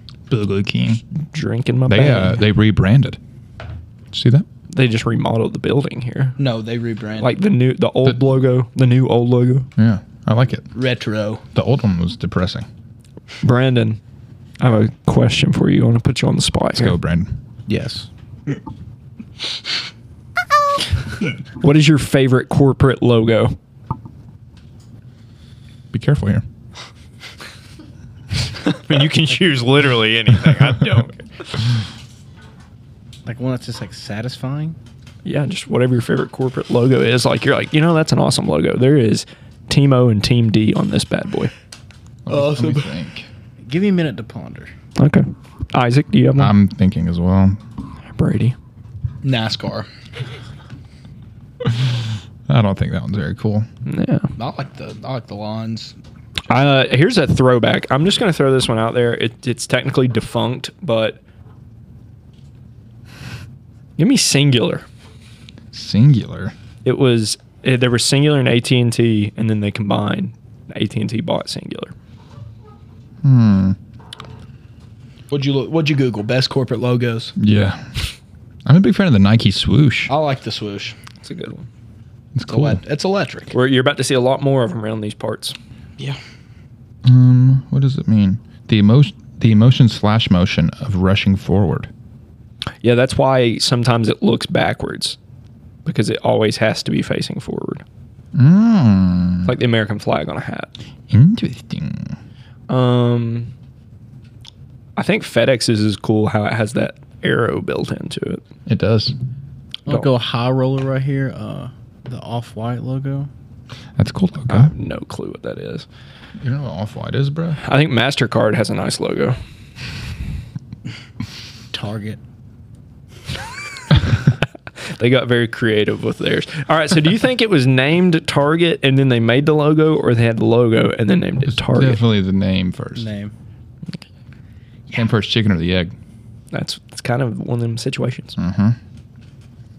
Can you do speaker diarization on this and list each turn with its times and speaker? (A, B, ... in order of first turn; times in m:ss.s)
0:00.3-0:01.0 A
0:01.2-0:02.4 B
0:01.9-0:03.2 A
0:04.1-0:04.5 A
0:04.7-0:06.4 B
0:06.4-0:07.3 C
0:07.2-0:09.7 B
0:09.8-0:10.7 A
0:10.7-0:11.4 C
0:11.5-0:12.7 A
0:13.4-0:14.0 B
0:14.6-0:17.0 B
0:16.8-0:17.3 A
0:17.7-0:18.1 C
0:21.6-0:23.6 B
0:25.9-0:26.4 A
0:28.7-0:31.2 B
0:33.3-0:34.8 D
0:35.2-0:41.5 B
0:42.3-0:43.3 A
0:42.3-0:42.9 D
0:43.7-0:44.7 D
0:45.0-0:46.5 B
0:46.4-0:47.6 A
0:48.1-0:48.6 B
0:49.2-0:49.9 C
0:51.6-0:51.9 A
0:52.5-0:53.7 A
0:53.9-0:54.3 B
0:54.4-0:56.0 C
0:56.5-1:01.2 B
1:04.0-1:04.8 B
1:05.7-1:06.6 A
1:06.8-1:11.9 B
1:13.2-1:13.8 A
1:15.3-1:17.4 C
1:17.4-1:17.9 A
1:18.7-1:20.1 A
1:20.1-1:21.0 C
1:21.2-1:21.7 B
1:22.4-1:22.8 A
1:22.5-1:23.5 C
1:23.5-1:25.6 B
1:27.0-1:31.9 A
1:32.8-1:35.2 B
1:35.8-1:37.8 B
1:38.4-1:39.6 A
1:39.4-1:40.7 B
1:41.1-1:42.2 A
1:42.7-1:43.5 B
1:45.0-1:48.4 B
1:48.7-1:49.2 A
1:49.9-1:53.3 D
1:54.0-1:54.7 A
1:54.5-1:55.9 B
1:56.4-1:57.6 A
1:57.6-1:59.4 B
2:01.7-2:02.2 D
2:04.9-2:12.0 B
2:11.5-2:13.1 A
2:13.0-2:13.3 D
2:14.9-2:16.0 A
2:16.5-2:18.4 B
2:18.4-2:18.8 A